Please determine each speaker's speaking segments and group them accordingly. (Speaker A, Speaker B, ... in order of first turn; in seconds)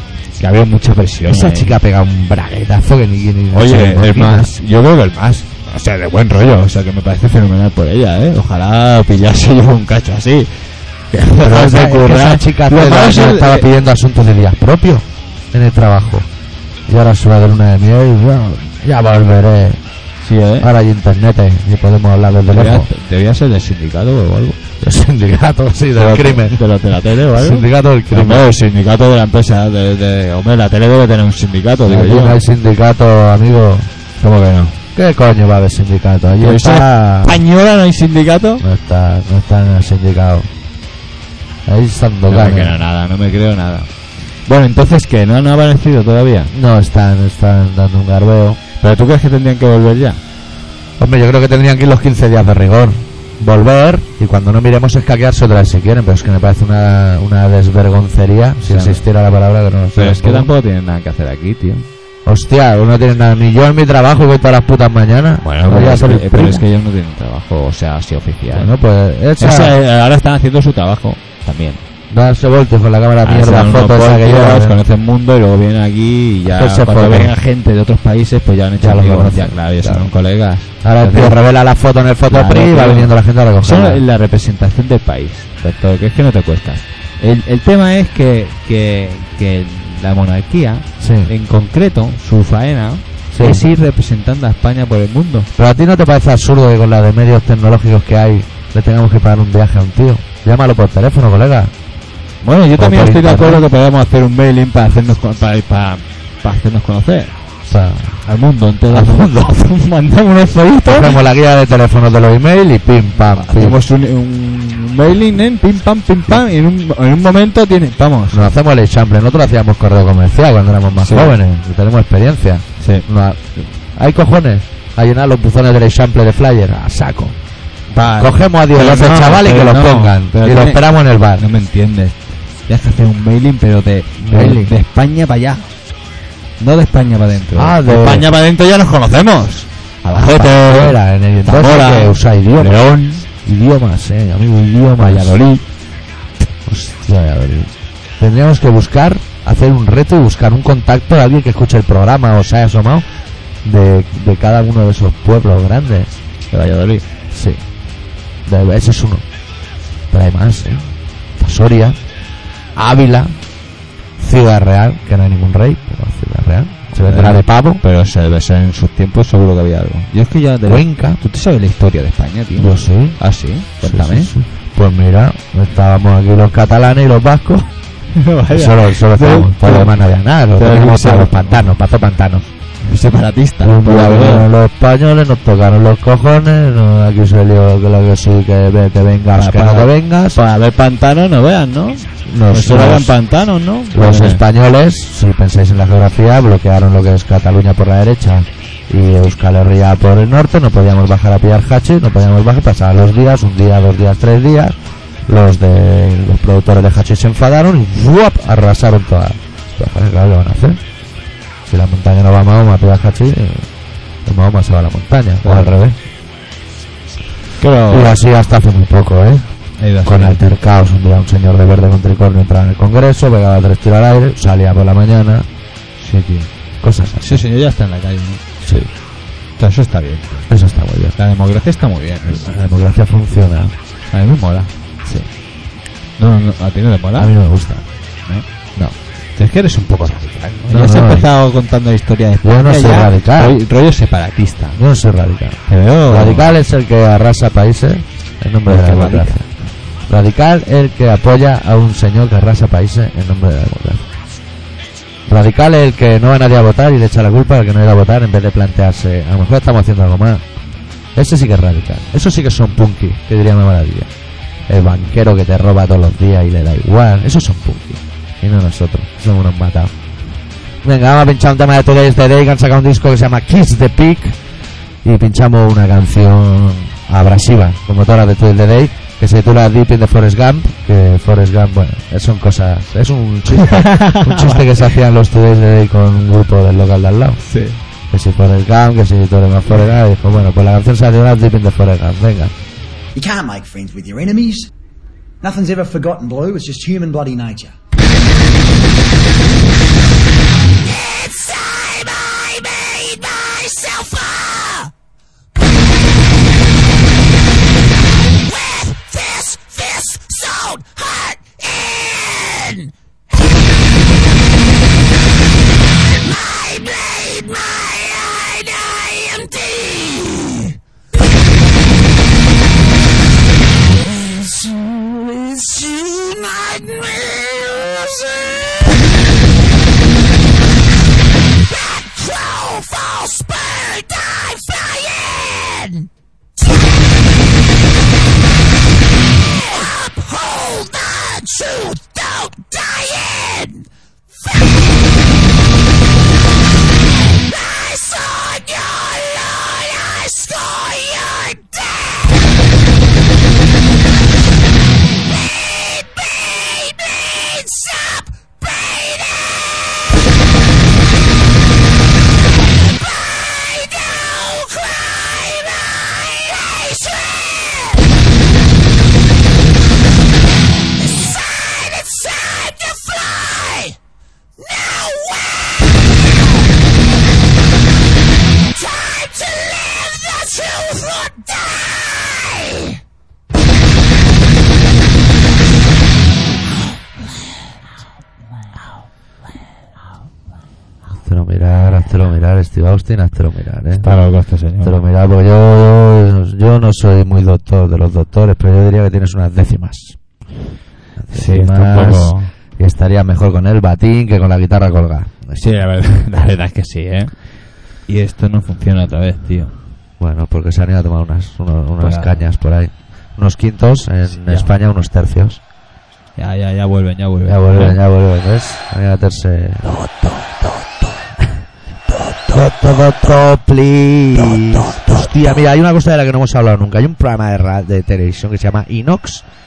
Speaker A: 0.4-1.8, 3.5-13.7, 20.2-20.7, 22.5-24.6, 26.0-32.4, 34.2-34.8, 36.4-38.6, 42.3-43.9, 44.4-46.5, 48.8-50.2, 58.6-59.0, 60.0-61.9, 65.4-68.7, 69.4-71.8, 73.2-81.4, 82.3-95.5, 102.4-107.4, 108.2-111.2, 113.3-118.5, 121.0-121.4, 122.8-123.1, 127.9-135.7, 136.6-143.3, 145.0-145.6, 156.5-157.1, 167.0-174.3, 178.1-180.0, 180.6-181.6, 182.8-184.5, 189.3-194.4, 215.4-215.8, 217.6-218.2, 219.8-220.4, 226.0-226.5, 227.1-228.4, 229.6-230.5, 231.2-232.5, 234.1-234.7, 236.2-237.3, 239.4-244.8, 245.7-246.5, 248.7-249.4, 283.5-284.9, 287.4-287.8, 394.0-394.9, 401.3-402.5, 405.5-409.8, 412.0-412.5, 414.3-414.7, 416.4-418.0, 419.9-420.7, 424.5-425.3
Speaker B: 1.3-4.5, 11.4-16.3, 16.9-19.8, 20.6-22.9, 24.8-26.6, 27.3-28.5, 31.9-33.9, 34.9-37.4, 38.6-40.5, 41.7-42.8, 46.5-48.6, 51.0-60.5, 62.2-66.6, 68.5-69.7, 72.1-74.8, 76.5-77.3, 78.8-80.1, 80.8-84.0, 91.0-91.3, 93.3-93.6, 95.6-101.7, 102.8-103.7, 107.7-108.2, 108.9-109.5, 110.9-113.8, 118.3-127.4, 128.2-131.4, 134.2-134.7, 137.6-138.3, 140.1-142.8, 143.4-145.4, 146.7-153.1, 153.6-156.1, 157.3-157.6, 158.5-159.2, 160.1-162.0, 162.8-163.4, 164.2-167.8, 170.7-171.2, 172.6-173.2, 173.8-177.7, 178.5-182.5, 183.6-190.4, 192.3-193.2, 193.9-210.8, 211.7-213.7, 214.3-216.0, 217.9-219.5, 220.0-225.5, 226.8-227.4, 228.6-228.9, 230.5-231.2, 232.3-233.8, 237.2-237.8, 240.7-241.3, 242.4-243.6, 244.8-249.5, 250.1-254.1, 255.3-260.4, 261.1-264.1, 264.7-269.9, 270.8-274.4, 275.0-287.4, 288.1-292.5, 391.2-394.1, 394.8-400.2, 401.2-405.3, 410.2-415.6, 417.5-419.9, 422.5-429.4
Speaker C: 293.1-294.7, 295.4-297.8
Speaker D: 300.9-304.9, 308.2-312.9, 316.1-320.7, 324.2-328.9, 331.7-336.1, 339.5-343.8, 347.1-352.4, 355.1-360.0, 362.4-368.1, 371.0-373.9, 374.6-375.9, 378.7-382.8